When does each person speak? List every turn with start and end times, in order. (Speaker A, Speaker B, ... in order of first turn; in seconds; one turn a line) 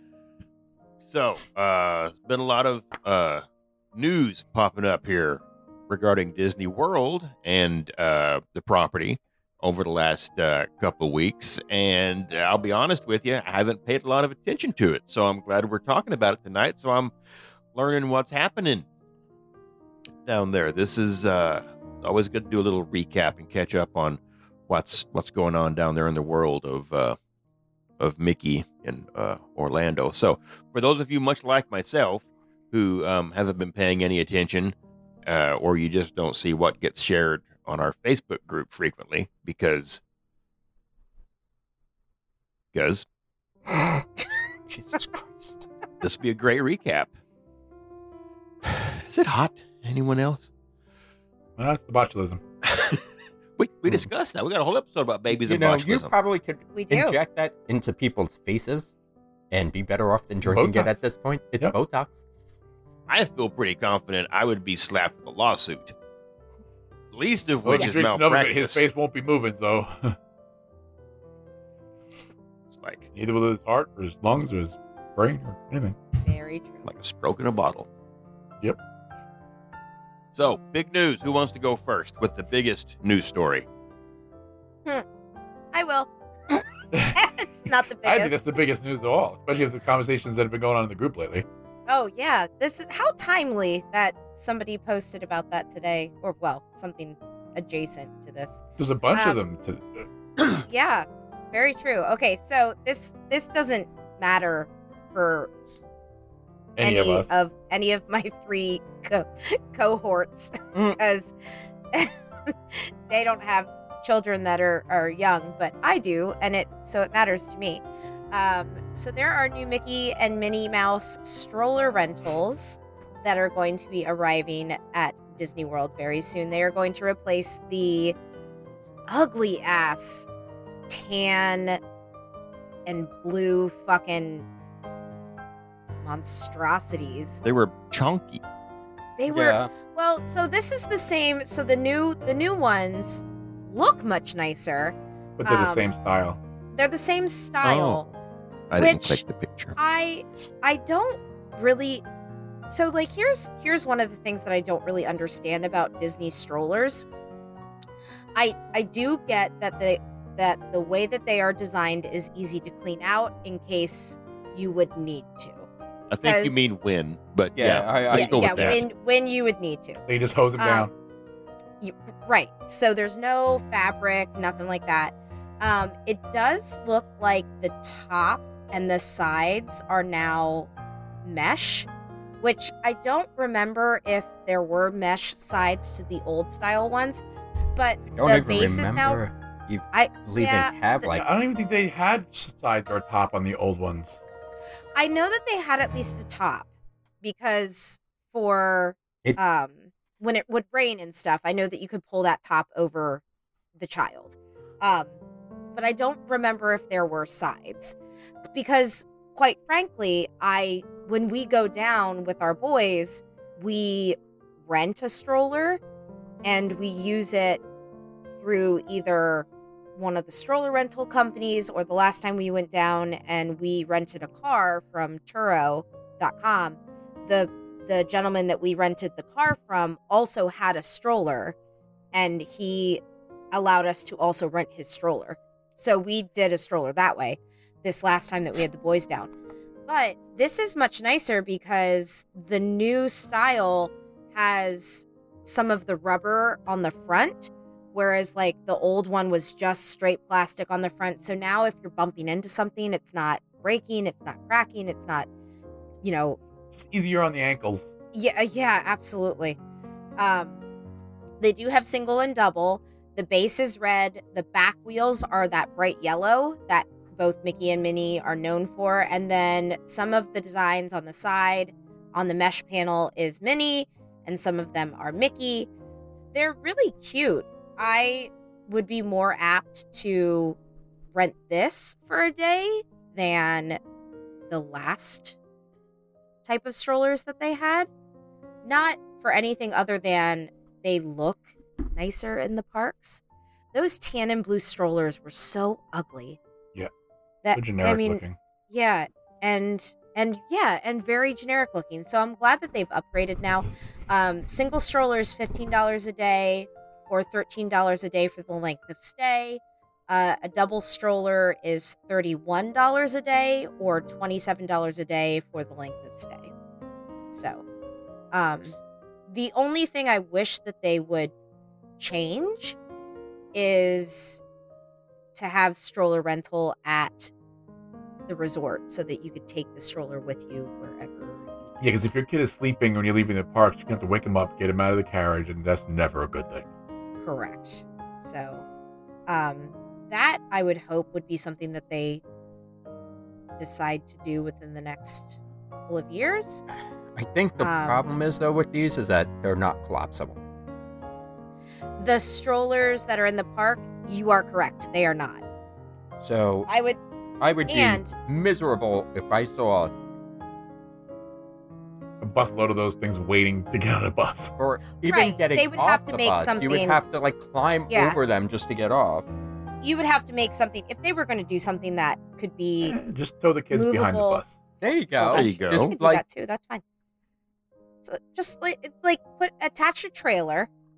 Speaker A: 1.0-17.1
Speaker A: 17.7-18.9
Speaker A: 20.3-27.2
Speaker A: 28.0-40.0
Speaker A: 42.7-43.1
Speaker B: 43.7-44.1
Speaker B: 44.7-45.6
Speaker A: 46.0-47.1
Speaker A: 48.6-50.5
Speaker C: 51.6-52.4
Speaker A: 52.6-53.0
Speaker A: 53.6-56.1
Speaker B: 55.4-58.9
Speaker D: 56.7-57.2
Speaker B: 59.5-62.2
Speaker C: 60.5-61.0
Speaker A: 63.1-65.9
Speaker A: 67.1-68.9
Speaker C: 67.6-70.2
Speaker A: 72.7-73.1
Speaker C: 73.1-76.0
Speaker D: 76.2-76.9
Speaker A: 76.8-77.9
Speaker A: 80.3-83.7
Speaker D: 85.7-86.6
Speaker C: 86.9-87.2
Speaker D: 87.1-88.4
Speaker C: 88.0-91.5
Speaker D: 91.9-98.6
Speaker C: 98.8-100.1
Speaker D: 99.1-99.4
Speaker D: 100.7-105.5
Speaker C: 106.8-107.3
Speaker D: 106.8-111.3
Speaker D: 111.9-128.2
Speaker D: 129.1-130.3
Speaker D: 130.9-131.8
Speaker D: 132.9-134.5
Speaker D: 136.0-137.4
Speaker A: 137.4-138.4
Speaker D: 139.2-145.9
Speaker B: 139.3-139.7
Speaker C: 145.4-146.4
Speaker D: 146.7-148.1
Speaker A: 147.6-148.0
Speaker A: 148.7-149.8
Speaker D: 148.8-149.2
Speaker D: 149.8-152.0
Speaker D: 152.7-157.1
Speaker D: 158.3-165.7
Speaker A: 166.1-168.8
Speaker D: 166.2-166.8
Speaker B: 167.6-168.8
Speaker D: 168.1-170.0
Speaker C: 170.1-170.9
Speaker D: 170.6-170.9
Speaker D: 171.8-180.7
Speaker D: 181.2-181.9
Speaker D: 182.4-187.2
Speaker D: 187.8-189.2
Speaker B: 188.1-191.3
Speaker D: 189.9-191.1
Speaker C: 191.1-194.2
Speaker D: 195.0-196.7
Speaker D: 197.2-203.2
Speaker D: 203.8-205.2
Speaker D: 205.8-208.0
Speaker D: 208.5-215.8
Speaker D: 216.4-217.6
Speaker D: 218.4-231.6
Speaker D: 232.1-233.0
Speaker D: 233.5-239.3
Speaker D: 239.9-255.3
Speaker D: 256.0-256.4
Speaker C: 256.7-257.9
Speaker D: 258.1-259.6
Speaker D: 260.2-260.6
Speaker D: 261.4-275.7
Speaker D: 276.3-280.6
Speaker D: 281.1-283.8
Speaker D: 284.5-285.4
Speaker D: 286.4-287.9
Speaker D: 288.6-293.2
Speaker D: 293.7-296.4
Speaker D: 297.4-316.5
Speaker C: 297.6-298.4
Speaker D: 317.3-317.6
Speaker D: 318.3-318.8
Speaker D: 319.3-321.3
Speaker D: 322.0-322.8
Speaker D: 323.5-324.4
Speaker D: 325.4-327.3
Speaker D: 328.3-332.0
Speaker C: 331.8-336.7
Speaker D: 337.2-338.6
Speaker D: 339.3-342.2
Speaker D: 343.6-346.6
Speaker B: 347.1-350.4
Speaker D: 347.6-348.0
Speaker D: 352.0-355.4
Speaker B: 356.2-356.7
Speaker D: 356.7-357.0
Speaker B: 357.4-359.9
Speaker D: 357.7-358.1
Speaker C: 362.2-364.5
Speaker B: 364.6-369.3
Speaker D: 365.1-367.0
Speaker D: 367.9-368.2
Speaker D: 369.8-373.0
Speaker C: 372.8-374.6
Speaker D: 373.7-374.4
Speaker B: 374.8-376.2
Speaker D: 375.2-376.8
Speaker A: 375.3-375.9
Speaker D: 378.0-380.7